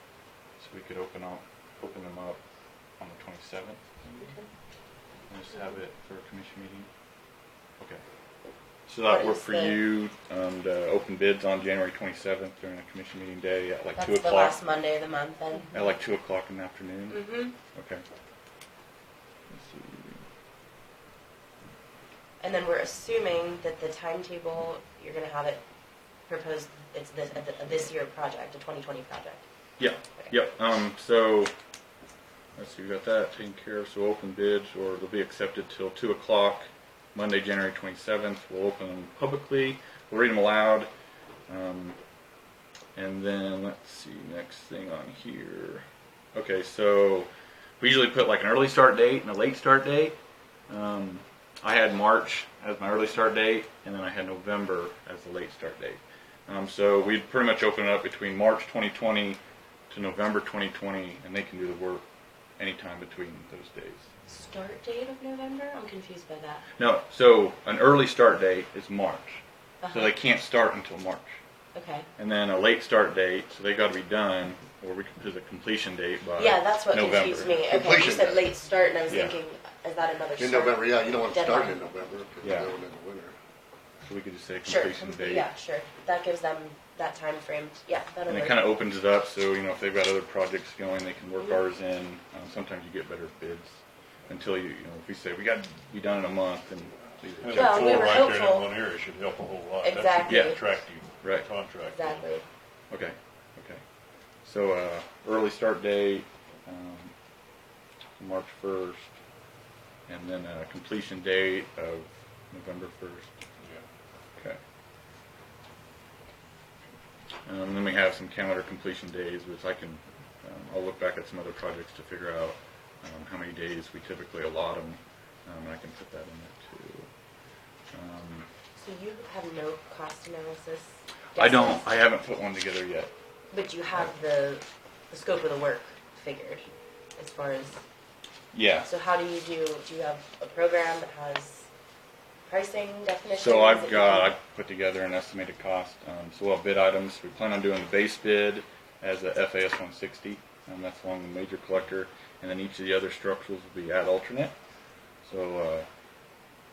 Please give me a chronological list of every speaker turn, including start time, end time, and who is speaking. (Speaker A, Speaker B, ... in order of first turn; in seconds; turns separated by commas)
Speaker A: 0.6-2.4, Speaker A: 3.0-4.3, Speaker A: 5.3-6.9, Speaker A: 8.9-14.6, Speaker B: 9.1-9.9, Speaker B: 14.0-15.8, Speaker A: 15.7-18.0, Speaker B: 17.1-17.5, Speaker A: 19.5-20.2, Speaker B: 22.4-25.6, Speaker B: 26.3-29.4, Speaker A: 29.8-31.5, Speaker A: 32.6-40.9, Speaker A: 41.5-42.0, Speaker A: 43.0-47.3, Speaker A: 47.8-50.2, Speaker A: 50.7-59.4, Speaker A: 59.9-62.0, Speaker A: 62.6-64.1, Speaker B: 64.3-66.7, Speaker A: 66.8-71.4, Speaker B: 69.8-70.1, Speaker B: 71.8-72.1, Speaker A: 72.2-77.6, Speaker B: 76.4-81.8, Speaker C: 77.7-78.5, Speaker A: 79.1-79.4, Speaker C: 80.4-83.4, Speaker A: 82.4-82.8, Speaker A: 84.1-85.5, Speaker B: 84.7-88.7, Speaker A: 88.3-98.1, Speaker D: 97.4-102.3, Speaker B: 97.5-98.7, Speaker B: 99.8-100.7, Speaker A: 100.3-100.6, Speaker A: 101.2-101.5, Speaker B: 101.9-102.5, Speaker A: 102.9-103.8, Speaker A: 104.4-107.1, Speaker A: 108.2-109.1, Speaker A: 110.1-113.3, Speaker A: 117.5-127.1, Speaker A: 127.9-128.5, Speaker B: 128.8-131.8, Speaker A: 131.4-133.1, Speaker B: 133.5-136.6, Speaker B: 137.2-137.8, Speaker A: 138.5-138.9, Speaker B: 138.9-141.7, Speaker B: 142.5-144.3, Speaker A: 143.3-154.5, Speaker A: 155.2-155.9